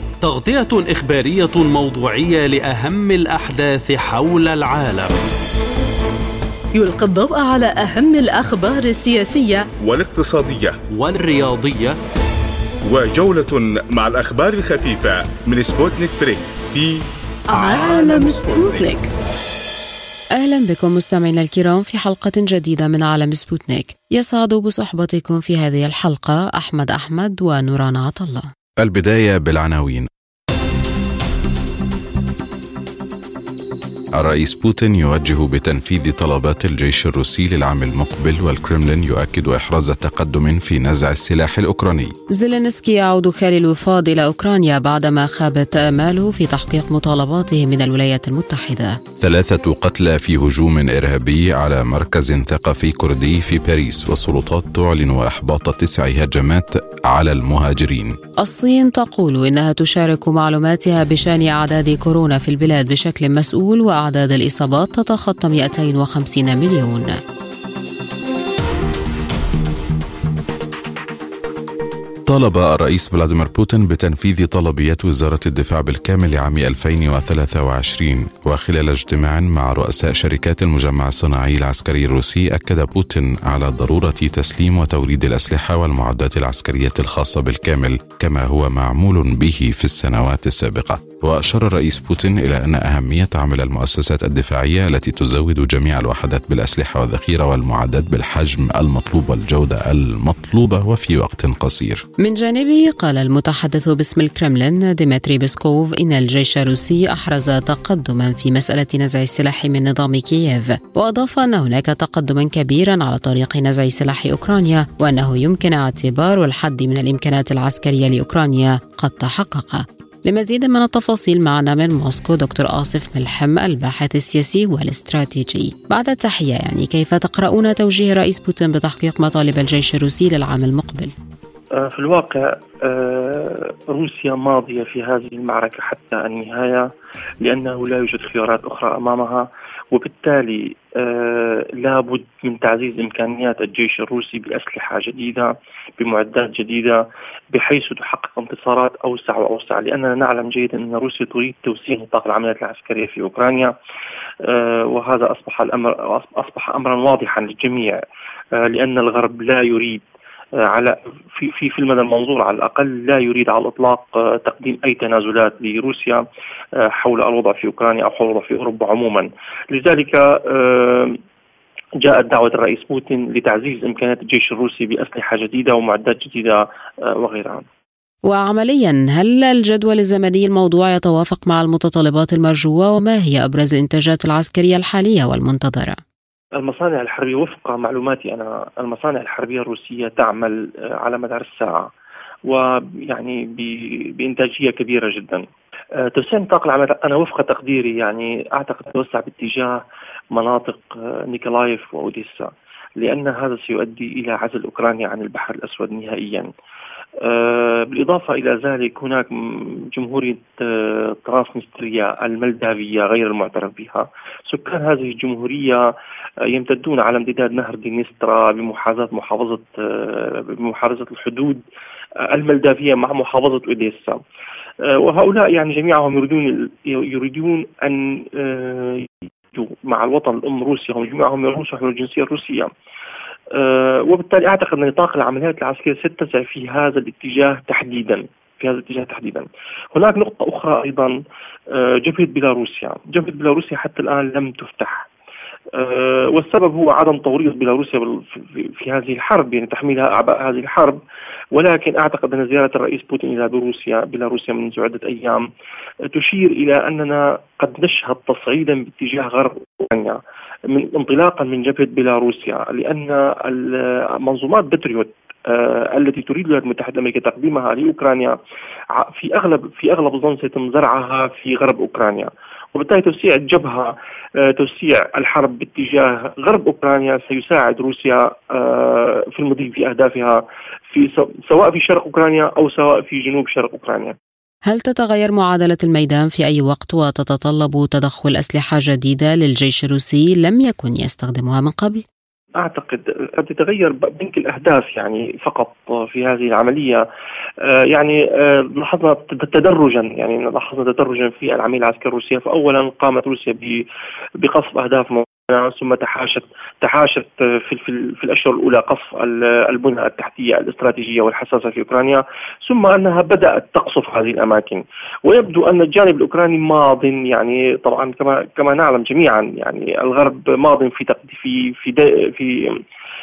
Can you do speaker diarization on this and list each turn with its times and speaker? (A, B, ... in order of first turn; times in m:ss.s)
0:00.2-0:05.2 A
0:06.7-0:09.7 B
0:09.8-0:10.8 C
0:10.9-0:12.0 A
0:12.8-0:17.0 C
0:17.5-0:19.1 B
0:17.6-0:18.9 C
0:20.4-0:28.5 D
0:28.8-0:30.1 E
0:34.2-0:42.1 E
0:42.3-0:49.0 D
0:49.2-0:58.2 E
0:58.4-1:07.2 D
1:12.3-1:42.0 E
1:42.2-2:11.1 D
2:11.8-2:16.9 F
2:17.4-2:33.7 F
2:34.4-2:38.0 F
2:38.6-2:40.0 F
2:40.6-2:46.2 F
2:46.8-2:51.2 F
2:52.0-2:57.7 F
2:58.3-3:06.0 D
3:06.6-3:11.9 F
3:12.5-3:15.4 F
3:16.0-3:26.5 F
3:27.2-3:29.4 F
3:29.9-3:35.9 F
3:36.5-3:41.6 F
3:42.2-3:44.2 F
3:44.8-3:52.7 F
3:53.5-4:01.1 F
4:01.7-4:05.1 F
4:05.7-4:11.0 F
4:11.6-4:15.5 F
4:16.1-4:28.4 F
4:29.0-4:44.2 F
4:44.7-4:52.0 D
4:52.6-4:57.0 F
4:57.9-5:03.8 F
5:04.4-5:22.6 F